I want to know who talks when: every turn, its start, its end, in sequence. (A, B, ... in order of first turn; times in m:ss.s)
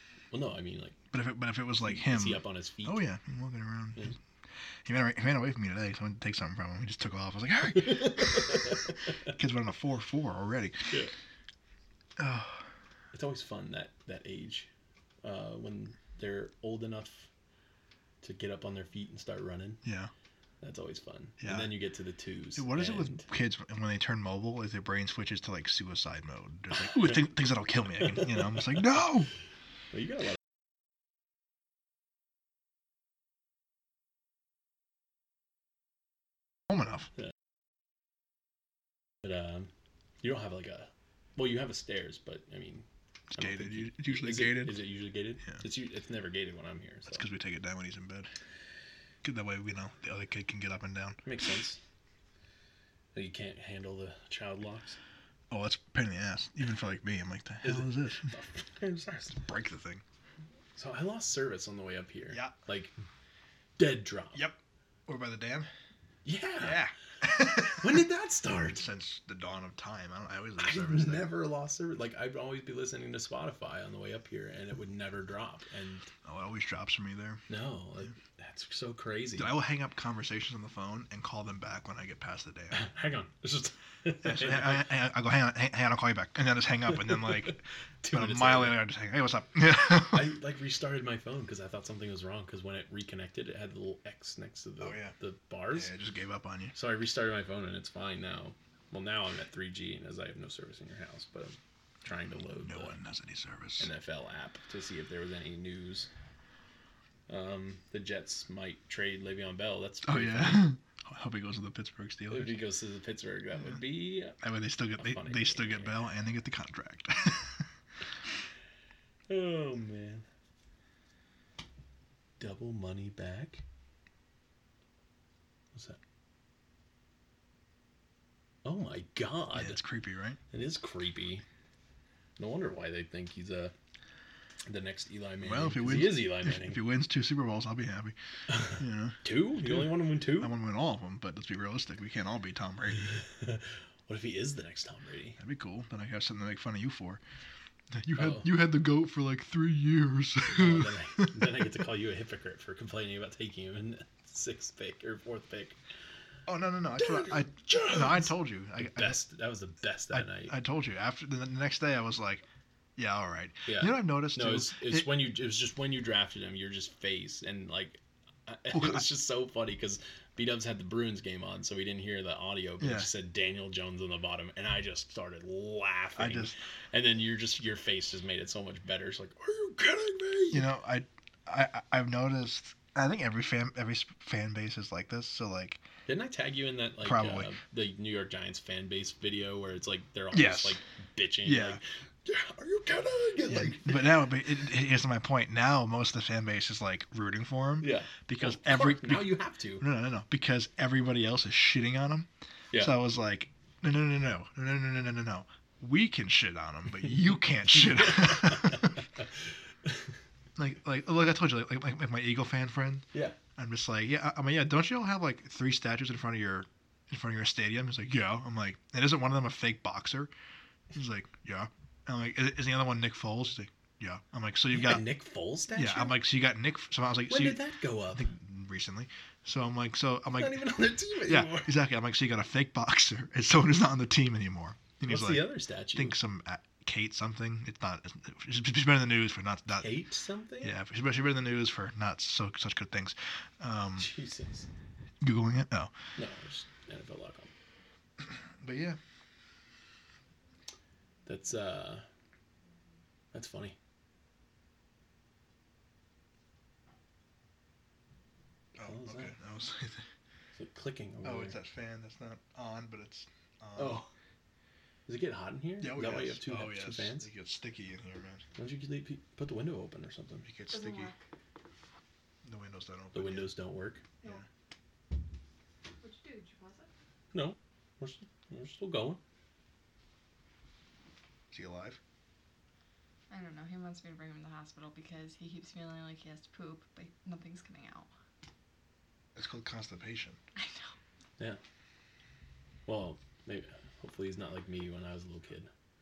0:00.3-0:01.0 A
0:01.1-0:04.2 B
0:01.8-0:03.0 A
0:04.8-0:08.6 B
0:07.8-0:09.1 A
0:09.2-0:10.9 B
0:12.2-0:12.7 B
0:13.1-0:14.7 A
0:15.2-0:17.3 A
0:18.2-0:19.8 A
0:19.8-0:20.1 B
0:20.6-0:23.2 A
0:21.4-0:21.7 B
0:22.6-0:29.3 B
0:36.7-0:37.1 B
0:39.2-0:39.7 A
0:40.2-0:47.2 A
0:43.3-0:44.9 B
0:47.1-0:48.3 B
0:49.2-0:51.2 B
0:51.2-0:51.8 A
0:53.1-0:55.0 A
0:55.5-0:58.3 B
0:57.6-0:59.4 A
0:59.4-1:00.0 B
1:00.7-1:02.9 A
1:03.8-1:04.4 A
1:04.3-1:05.7 B
1:06.2-1:06.8 A
1:06.6-1:08.0 B
1:07.7-1:08.8 A
1:08.7-1:11.3 B
1:10.6-1:16.1 A
1:16.2-1:17.4 B
1:17.5-1:19.5 A
1:19.4-1:22.8 B
1:22.7-1:24.9 A
1:24.2-1:30.3 B
1:27.1-1:28.8 A
1:30.1-1:35.9 A
1:34.8-1:35.1 B
1:35.7-1:36.7 B
1:36.7-1:43.0 A
1:42.6-1:43.9 B
1:43.8-1:46.1 A
1:47.3-1:50.7 A
1:50.0-1:52.6 B
1:52.3-1:54.4 A
1:54.4-1:57.7 B
1:55.0-1:55.9 A
1:59.3-2:00.2 A
2:02.4-2:03.6 A
2:08.6-2:09.8 A
2:09.5-2:10.4 B
2:10.5-2:11.4 A
2:12.4-2:13.7 A
2:14.7-2:16.8 A
2:15.4-2:18.1 B
2:18.5-2:20.5 A
2:18.8-2:19.8 B
2:20.4-2:23.1 B
2:23.1-2:25.4 A
2:25.4-2:27.2 B
2:27.9-2:31.5 B
2:28.2-2:28.5 A
2:30.5-2:35.8 A
2:36.5-2:39.2 B
2:37.0-2:40.5 A
2:40.1-2:42.4 B
2:43.0-2:45.1 B
2:43.6-3:00.7 A
2:48.7-2:49.0 B
2:52.8-2:53.1 B
2:56.2-2:56.5 B
3:00.5-3:05.8 B
3:06.1-3:14.1 A
3:07.0-3:07.5 B
3:10.3-3:10.8 B
3:11.4-3:11.8 B
3:13.5-3:28.9 B
3:17.8-3:19.8 A
3:27.7-3:29.3 A
3:29.8-3:30.1 A
3:30.6-3:40.3 B
3:40.9-3:45.1 B
3:44.7-3:46.2 A
3:45.7-3:47.6 B
3:47.3-3:48.3 A
3:48.1-3:50.7 B
3:50.3-3:51.7 A
3:51.2-3:59.9 B
3:55.0-3:56.2 A
3:59.7-4:00.7 A
4:00.6-4:04.1 B
4:04.0-4:04.7 A
4:05.2-4:05.9 B
4:06.2-4:07.5 A
4:08.2-4:09.0 B
4:11.2-4:12.0 A
4:13.3-4:13.8 A
4:18.8-4:20.0 B
4:18.8-4:19.3 A
4:20.5-4:21.6 A
4:21.2-4:24.0 B
4:23.8-4:24.1 A
4:25.1-4:27.3 A
4:25.8-4:28.4 B
4:28.6-4:30.5 A
4:30.4-4:31.1 B
4:30.7-4:31.2 C
4:32.4-4:33.5 B
4:33.1-4:34.0 A
4:36.0-4:36.9 C
4:37.3-4:39.2 A
4:41.5-4:42.0 B
4:43.3-4:48.1 C
4:49.4-4:50.4 B
4:50.6-4:50.9 C
4:52.9-4:55.7 A